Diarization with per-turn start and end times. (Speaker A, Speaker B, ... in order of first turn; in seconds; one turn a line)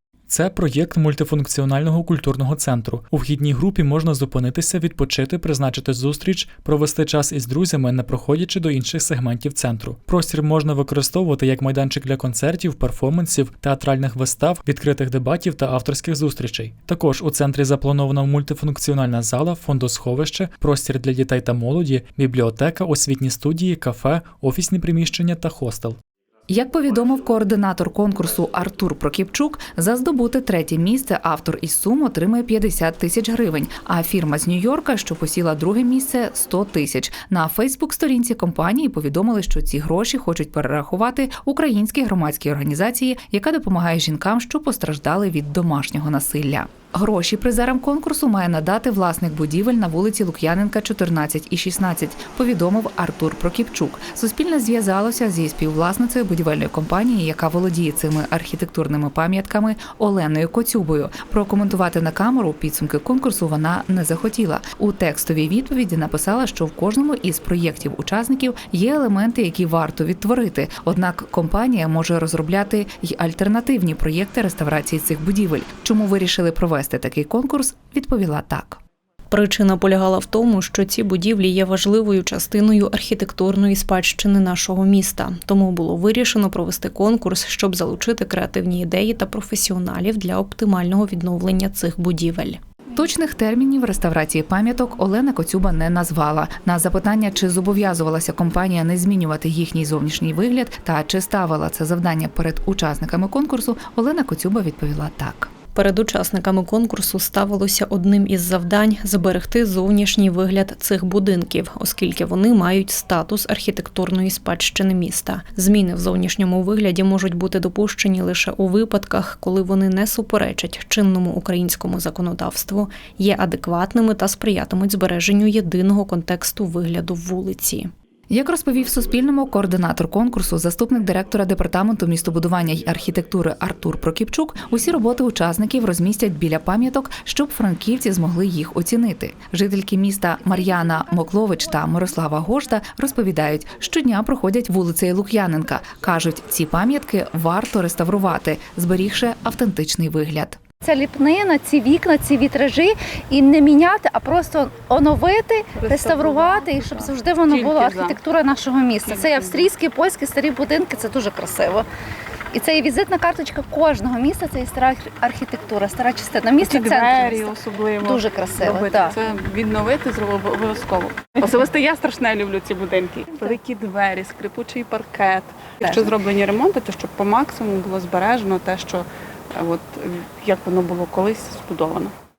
Speaker A: 0.3-26.0
Speaker B: 26.5-78.8
Speaker C: 79.3-92.6
Speaker B: 92.9-105.5
Speaker C: 105.7-127.9
Speaker B: 128.3-150.6
Speaker D: 140.5-141.3
Speaker D: 150.8-161.8
Speaker E: 155.8-158.2
Speaker E: 159.1-159.7
Speaker D: 162.5-167.5
Speaker E: 166.6-182.1
Speaker D: 168.1-169.2